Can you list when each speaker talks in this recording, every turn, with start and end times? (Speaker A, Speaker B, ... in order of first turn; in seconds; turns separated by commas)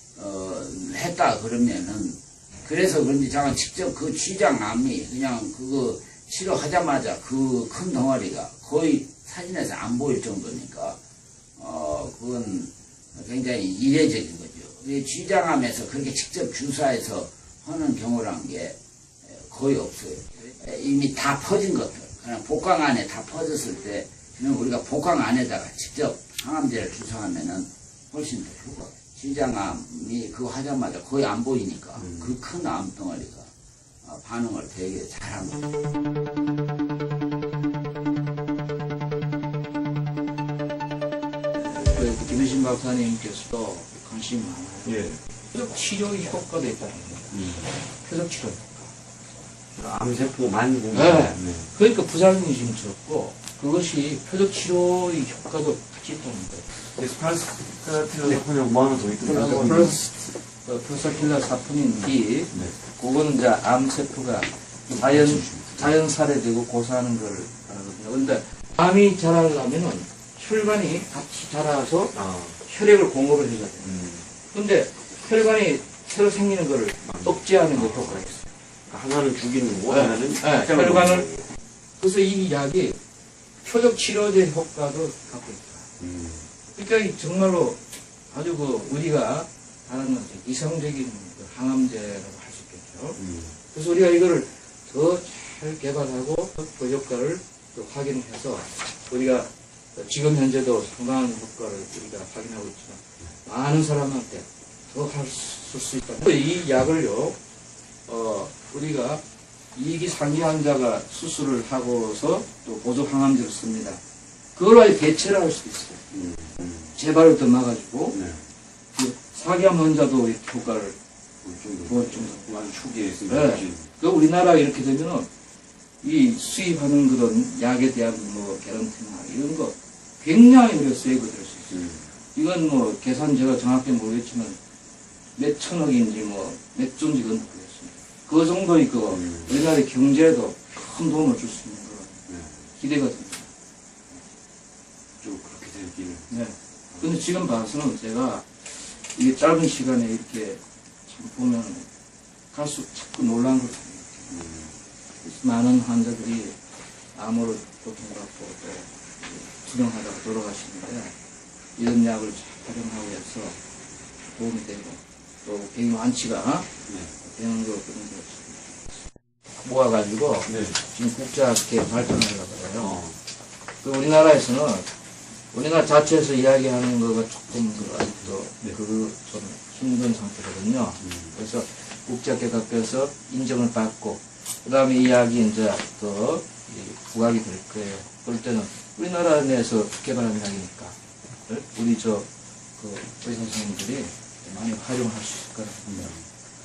Speaker A: 0.2-11.0, Speaker A: 11.6-18.8, Speaker A: 19.3-33.5, Speaker B: 32.0-32.4, Speaker A: 34.0-35.6, Speaker C: 41.7-48.9, Speaker B: 44.8-45.2, Speaker B: 47.3-47.7, Speaker B: 49.8-51.7, Speaker C: 50.9-56.6, Speaker B: 56.9-60.0, Speaker C: 59.2-73.9, Speaker B: 62.5-62.7, Speaker B: 65.0-65.9, Speaker B: 72.1-72.5, Speaker B: 73.8-74.2, Speaker C: 74.5-78.5, Speaker B: 77.0-78.2, Speaker B: 78.9-81.4, Speaker C: 79.9-81.3, Speaker C: 82.0-83.0, Speaker C: 83.6-85.9, Speaker B: 86.0-86.4, Speaker C: 86.7-93.2, Speaker B: 93.2-93.5, Speaker C: 93.7-107.4, Speaker C: 108.0-109.2, Speaker C: 109.7-114.0, Speaker C: 114.5-116.0, Speaker B: 116.1-116.9, Speaker C: 116.9-118.2, Speaker B: 118.1-118.4, Speaker C: 118.9-121.0, Speaker B: 121.4-123.8, Speaker C: 121.8-122.5, Speaker C: 123.3-125.3, Speaker C: 126.0-134.6, Speaker B: 131.7-132.0, Speaker C: 135.3-142.2, Speaker B: 139.1-139.5, Speaker B: 142.3-142.5, Speaker C: 142.8-143.5, Speaker B: 145.2-146.2, Speaker C: 146.3-151.9, Speaker B: 146.9-147.2, Speaker C: 152.5-154.3, Speaker B: 154.3-154.8, Speaker C: 155.2-156.6, Speaker C: 157.1-161.1, Speaker C: 161.8-163.6, Speaker C: 164.3-169.0, Speaker C: 169.6-173.0, Speaker B: 170.5-170.7, Speaker B: 172.8-173.1, Speaker C: 173.8-174.9, Speaker C: 175.5-196.1, Speaker B: 181.0-181.3